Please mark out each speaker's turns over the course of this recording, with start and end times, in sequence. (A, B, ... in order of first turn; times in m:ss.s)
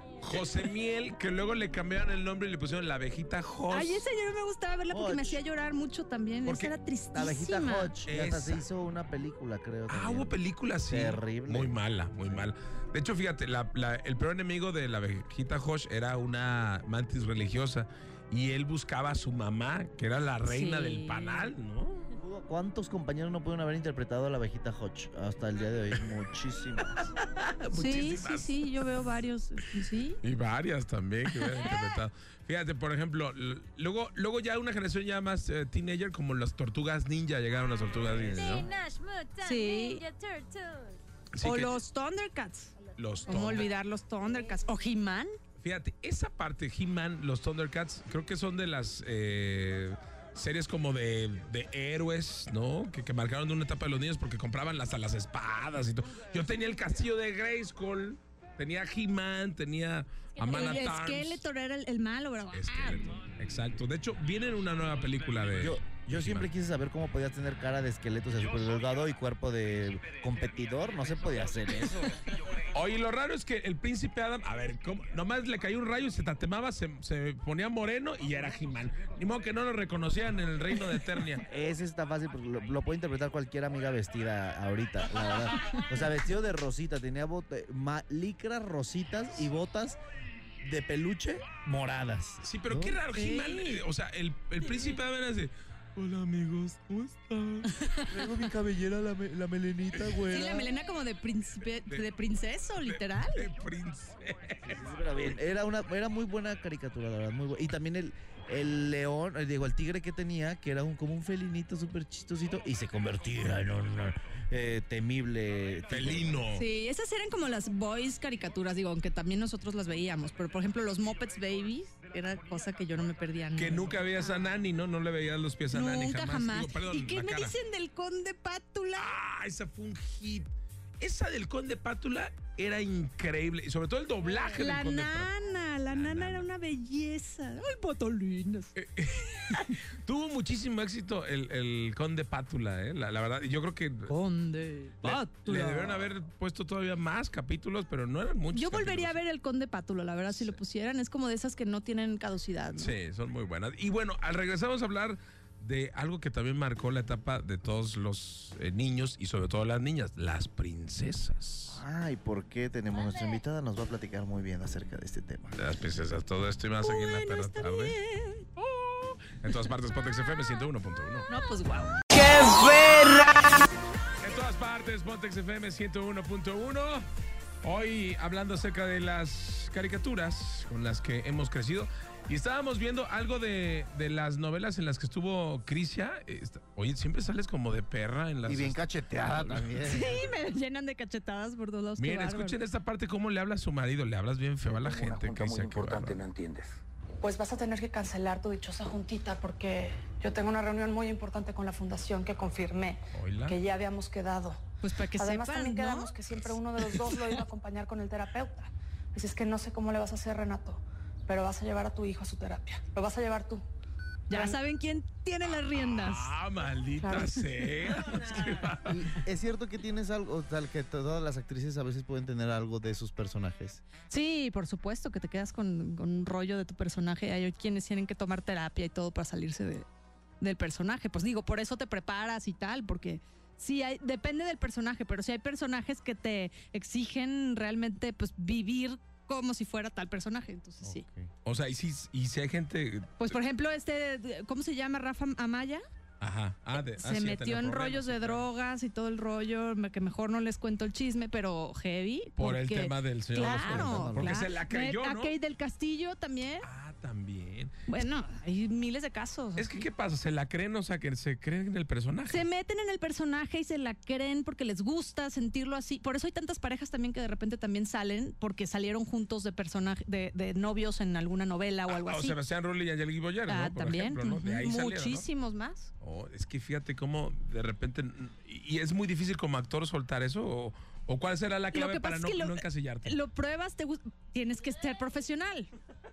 0:00.2-0:04.1 A
0:03.7-0:07.9 B
0:04.9-0:05.4 C
0:06.4-0:06.7 A
0:06.5-0:10.4 C
0:08.1-0:08.6 A
0:09.9-0:22.1 A
0:10.9-0:12.5 C
0:20.4-0:21.5 B
0:22.2-0:27.1 C
0:27.5-0:28.6 A
0:27.7-0:30.2 B
0:30.2-0:38.7 A
0:38.1-0:38.7 C
0:38.3-0:41.0 D
0:39.4-0:40.0 B
0:41.3-0:41.8 A
0:41.4-0:42.7 B
0:43.0-0:43.7 A
0:43.3-0:45.4 B
0:45.6-1:01.4 A
1:00.3-1:00.9 D
1:00.5-1:03.1 B
1:02.5-1:06.5 A
1:05.6-1:12.2 C
1:11.8-1:12.1 A
1:12.7-1:21.4 A
1:21.5-1:30.0 C
1:30.6-1:33.0 C
1:32.4-1:37.7 A
1:33.1-1:33.8 B
1:34.6-1:35.0 B
1:37.8-1:38.2 B
1:38.1-1:40.8 C
1:40.0-1:40.2 A
1:40.3-1:43.4 B
1:42.8-1:44.9 A
1:44.6-1:56.4 C
1:55.9-1:56.7 A
1:56.6-2:04.4 B
2:03.5-2:07.5 A
2:05.7-2:09.1 B
2:09.0-2:15.4 A
2:14.6-2:19.7 B
2:15.9-2:16.5 A
2:18.8-2:24.1 A
2:24.1-2:26.1 B
2:25.0-2:29.2 A
2:28.5-2:33.0 B
2:30.3-2:30.6 A
2:32.8-2:41.8 A
2:41.7-2:45.6 C
2:43.0-2:43.4 D
2:45.6-2:48.0 A
2:46.8-2:48.5 B
2:48.6-2:51.3 A
2:51.3-2:53.7 B
2:54.2-2:57.0 A
2:57.6-3:09.8 A
3:08.5-3:10.2 C
3:09.8-3:12.6 B
3:12.0-3:16.2 A
3:14.7-3:16.7 E
3:17.2-3:33.6 F
3:23.1-3:23.6 A
3:24.8-3:26.1 B
3:26.9-3:27.3 B
3:34.3-3:36.3 B
3:34.3-3:34.6 F
3:35.7-3:39.0 A
3:37.1-3:37.4 B
3:38.8-3:43.8 C
3:44.1-3:49.9 B
3:50.4-4:01.0 B
4:00.8-4:01.3 C
4:01.4-4:03.4 A
4:03.2-4:05.8 B
4:06.2-4:08.5 A
4:07.0-4:16.7 B
4:12.4-4:15.4 A
4:13.3-4:14.5 C
4:16.6-4:17.7 A
4:17.9-4:19.9 B
4:19.6-4:22.5 A
4:22.3-4:32.4 B
4:31.9-4:35.3 A
4:33.5-4:35.9 B
4:36.0-4:43.2 A
4:41.7-4:45.7 B